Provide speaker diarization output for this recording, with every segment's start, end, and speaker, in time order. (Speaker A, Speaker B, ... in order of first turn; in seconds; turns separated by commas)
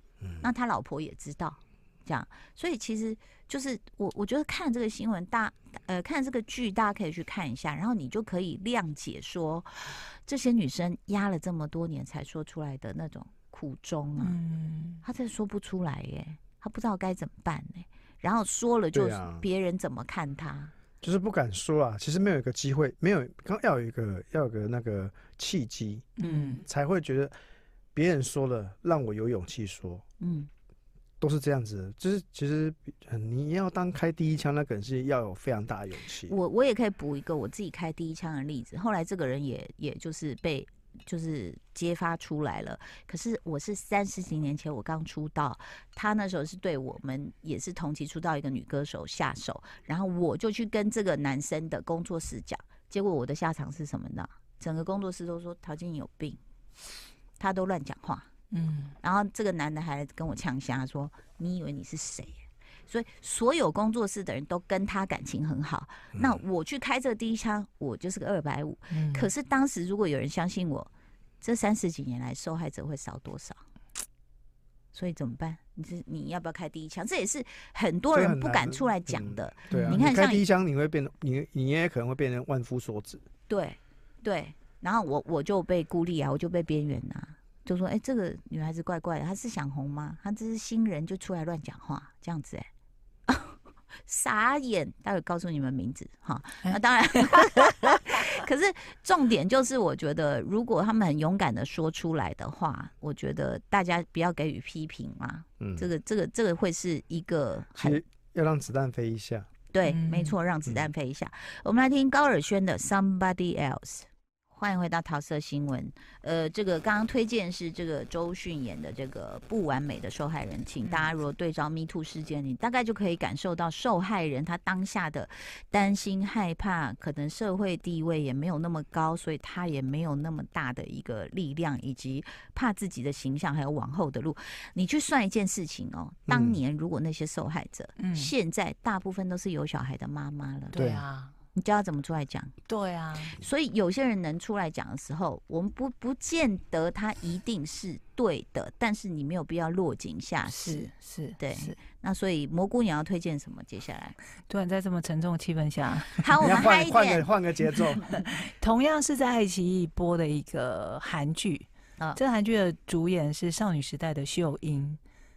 Speaker A: 0.4-14.3, Speaker B: 14.2-15.0, Speaker A: 15.0-20.7, Speaker C: 18.9-19.4, Speaker C: 21.0-27.3, Speaker B: 26.2-26.6, Speaker A: 26.2-26.6, Speaker C: 27.9-30.0, Speaker A: 30.2-30.5, Speaker C: 31.2-36.3, Speaker A: 36.3-56.4, Speaker A: 57.4-58.3, Speaker B: 58.5-58.9, Speaker A: 59.0-70.9, Speaker C: 66.1-66.4, Speaker B: 68.9-69.3, Speaker A: 71.4-73.6, Speaker A: 74.9-80.4, Speaker C: 78.1-83.2, Speaker B: 79.7-80.0, Speaker A: 83.5-92.7, Speaker A: 93.3-108.0, Speaker B: 96.6-98.0, Speaker C: 105.6-105.9, Speaker C: 107.8-109.5, Speaker A: 109.7-140.8, Speaker B: 109.8-110.3, Speaker C: 136.3-136.6, Speaker B: 138.0-138.3, Speaker B: 140.7-141.3, Speaker C: 140.7-141.0, Speaker A: 141.5-142.5, Speaker B: 142.7-143.3, Speaker A: 143.3-154.2, Speaker B: 150.4-151.8, Speaker B: 154.5-156.6, Speaker A: 156.2-157.3, Speaker C: 156.4-158.1, Speaker B: 158.1-165.0